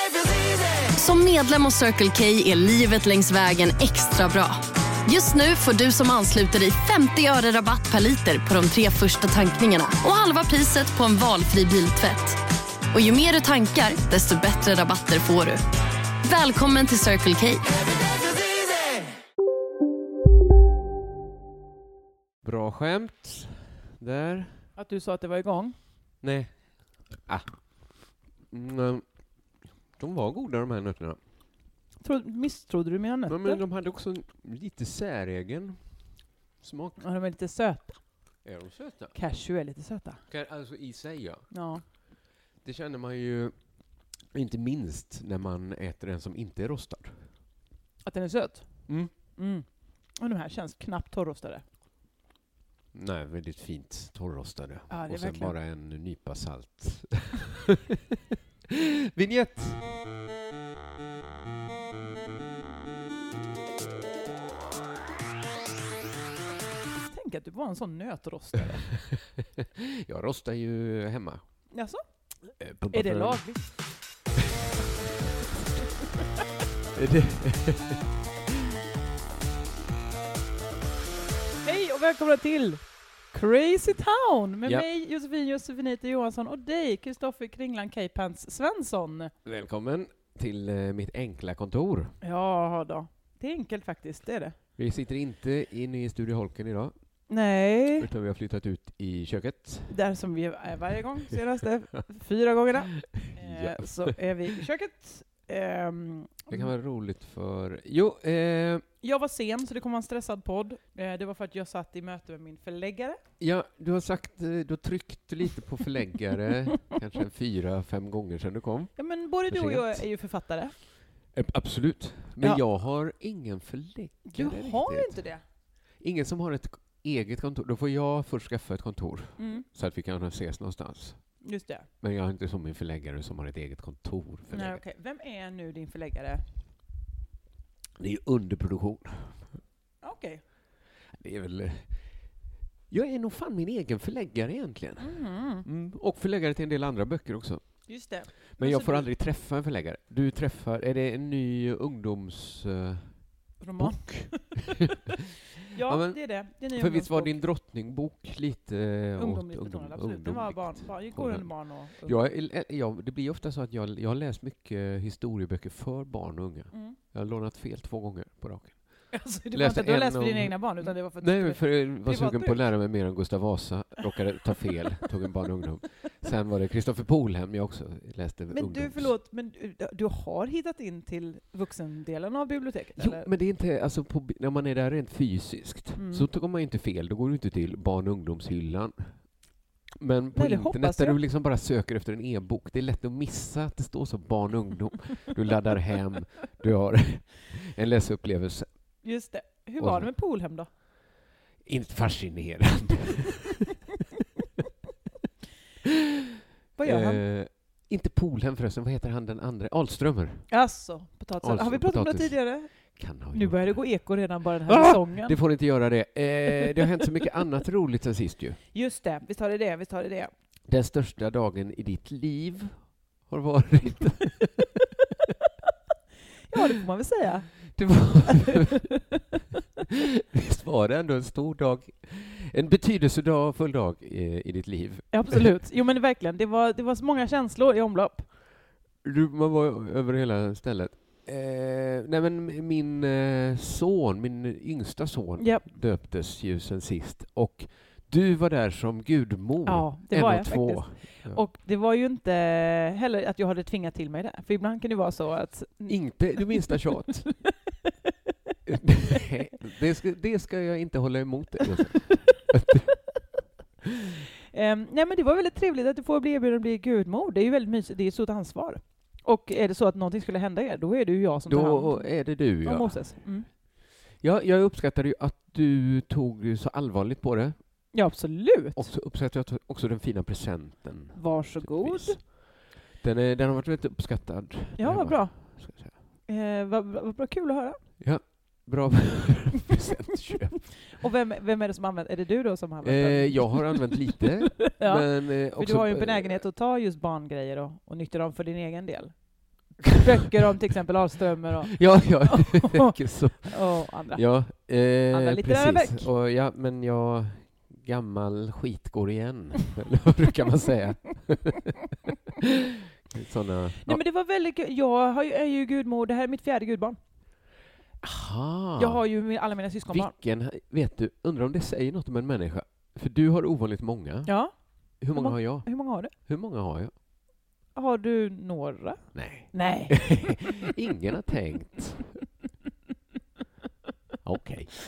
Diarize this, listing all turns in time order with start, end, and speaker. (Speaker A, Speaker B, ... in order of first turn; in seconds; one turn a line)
Speaker A: 0.8-12.4
Speaker A: 12.9-15.6
Speaker A: 16.2-17.7
Speaker B: 22.4-24.7
Speaker C: 24.8-25.8
Speaker B: 26.2-29.1
Speaker B: 30.0-31.2
Speaker C: 32.0-33.6
Speaker B: 33.3-36.0
Speaker B: 36.6-37.0
Speaker C: 37.0-38.0
Speaker B: 38.4-39.1
Speaker C: 39.1-40.2
Speaker B: 40.3-41.5
Speaker C: 41.5-41.8
Speaker B: 42.6-43.5
Speaker B: 44.3-47.2
Speaker C: 48.0-51.6
Speaker B: 48.9-49.1
Speaker B: 52.9-58.0
Speaker C: 54.9-55.5
Speaker B: 58.7-59.8
Speaker C: 67.1-68.9
Speaker B: 69.6-71.4
Speaker C: 71.7-72.0
Speaker B: 72.6-73.8
Speaker C: 72.9-73.6
Speaker B: 76.9-78.0
Speaker C: 81.6-89.3
Speaker B: 89.4-92.2
Speaker C: 92.2-94.6
Speaker B: 94.8-96.9
Speaker C: 97.3-98.1
Speaker B: 98.0-100.0
Speaker C: 99.9-106.7
Speaker B: 103.0-104.6
Speaker B: 106.5-108.8
Speaker C: 109.0-113.2
Speaker B: 113.4-120.0
Speaker C: 119.0-120.7
Speaker B: 121.3-125.2
Speaker C: 124.2-125.4
Speaker B: 126.0-131.4
Speaker C: 129.4-129.7
Speaker C: 131.4-131.9
Speaker B: 132.0-134.8
Speaker C: 134.5-136.4
Speaker B: 138.0-139.6
Speaker C: 140.0-140.4
Speaker B: 141.1-141.9
Speaker B: 142.9-147.9
Speaker C: 145.0-145.7
Speaker C: 147.9-149.1
Speaker B: 148.6-154.9
Speaker C: 153.6-154.7
Speaker C: 155.7-157.4
Speaker B: 155.8-179.1
Speaker C: 159.2-162.2
Speaker C: 166.7-167.0
Speaker C: 169.1-172.6
Speaker C: 178.5-183.3
Speaker B: 183.0-189.3
Speaker C: 186.0-186.3
Speaker B: 190.0-198.7
Speaker C: 190.3-191.2
Speaker C: 199.0-200.7
Speaker B: 199.8-200.1
Speaker B: 201.6-203.6
Speaker C: 206.8-207.2
Speaker B: 206.8-210.5
Speaker C: 210.5-215.4
Speaker B: 211.4-218.6
Speaker C: 218.7-220.3
Speaker B: 220.7-224.9
Speaker C: 226.5-229.0
Speaker B: 227.7-228.9
Speaker B: 230.3-235.4
Speaker C: 235.1-238.3
Speaker B: 239.0-251.4
Speaker C: 245.4-245.7
Speaker C: 249.7-256.8
Speaker B: 255.9-257.4
Speaker B: 258.7-263.0
Speaker C: 264.5-273.5
Speaker B: 271.5-273.6
Speaker B: 274.1-277.6
Speaker C: 277.9-278.9
Speaker B: 278.8-285.9
Speaker C: 281.1-282.2
Speaker C: 284.8-287.9
Speaker B: 288.0-290.9
Speaker C: 290.9-293.8
Speaker B: 292.8-296.4
Speaker C: 294.6-306.1
Speaker B: 301.6-311.7
Speaker B: 313.1-314.0
Speaker C: 313.9-317.0
Speaker B: 318.0-319.1
Speaker C: 318.8-320.1
Speaker B: 319.9-324.4
Speaker C: 324.3-326.1
Speaker B: 325.0-326.9
Speaker C: 327.7-330.7
Speaker B: 329.1-332.2
Speaker B: 334.2-334.8